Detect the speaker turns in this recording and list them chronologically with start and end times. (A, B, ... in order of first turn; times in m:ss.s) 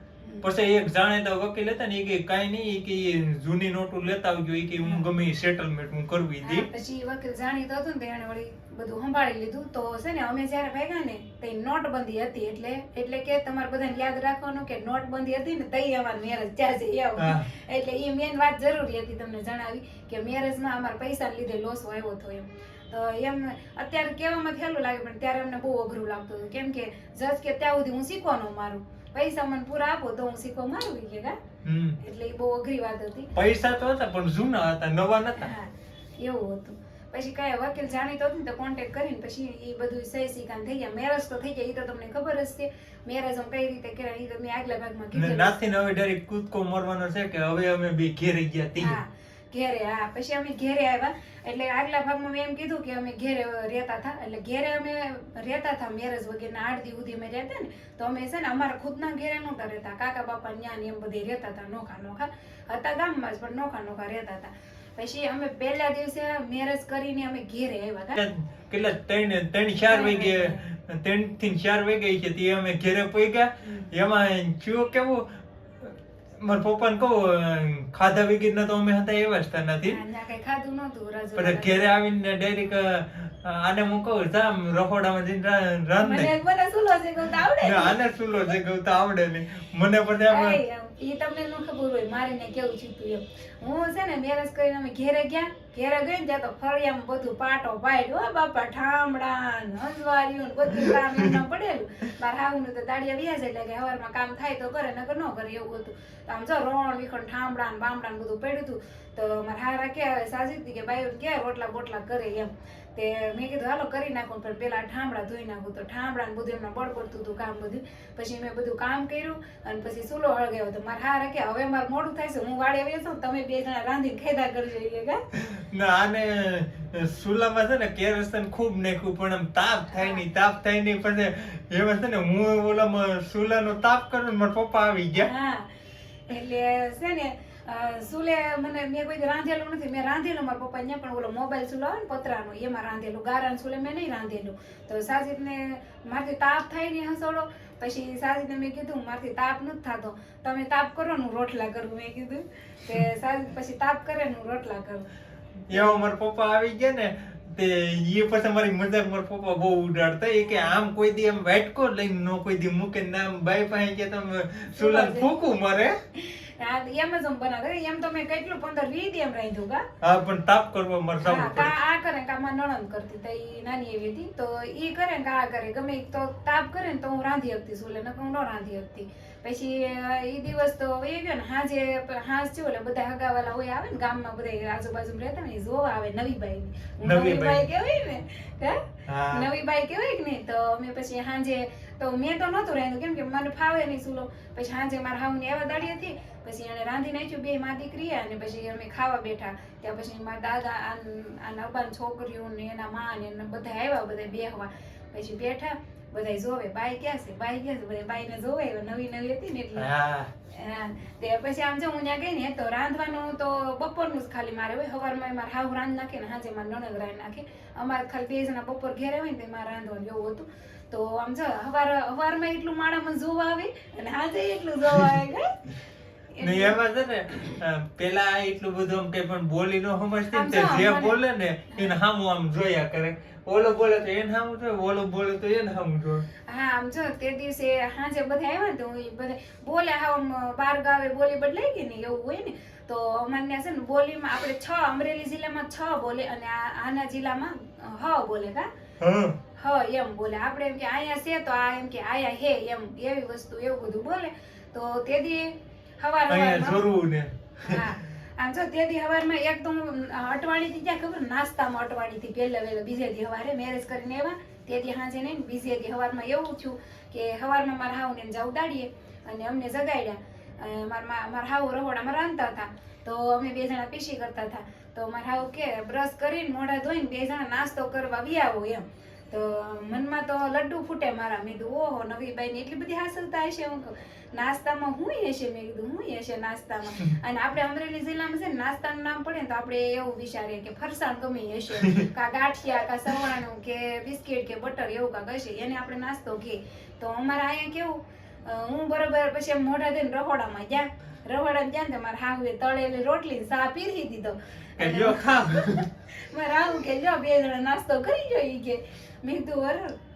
0:00.2-0:00.5 A
0:00.4-0:06.7 B
0:06.4-0:31.4 A
0:17.2-0:17.5 B
0:31.6-0:32.0 B
0:32.0-0:33.3 A
0:33.4-0:35.5 B
0:35.4-0:45.5 A
0:45.1-0:49.0 B
0:48.8-1:08.2 A
1:08.2-1:20.0 B
1:09.9-1:10.6 A
1:19.9-1:21.9 A
1:21.4-1:26.3 B
1:26.0-1:28.0 A
1:27.6-1:30.6 B
1:30.3-2:05.2 A
2:05.3-2:15.3 B
2:15.2-2:15.7 A
2:16.3-2:35.1 A
2:35.7-2:46.0 B
2:35.7-2:36.0 A
2:40.5-2:40.7 A
2:44.8-2:45.3 A
2:46.2-2:49.9 A
2:50.0-2:51.8 B
2:51.2-3:29.9 A
3:07.0-3:07.7 B
3:09.1-3:09.5 B
3:29.8-3:30.3 B
3:30.5-3:45.6 A
3:46.3-3:46.8 A
3:46.4-3:56.3 B
3:50.3-3:51.2 A
3:51.7-3:52.0 A
3:56.5-4:08.7 A
4:09.0-4:09.4 B
4:09.6-4:16.8 A
4:16.3-4:17.9 B
4:17.6-5:10.0 A
5:04.8-5:05.9 B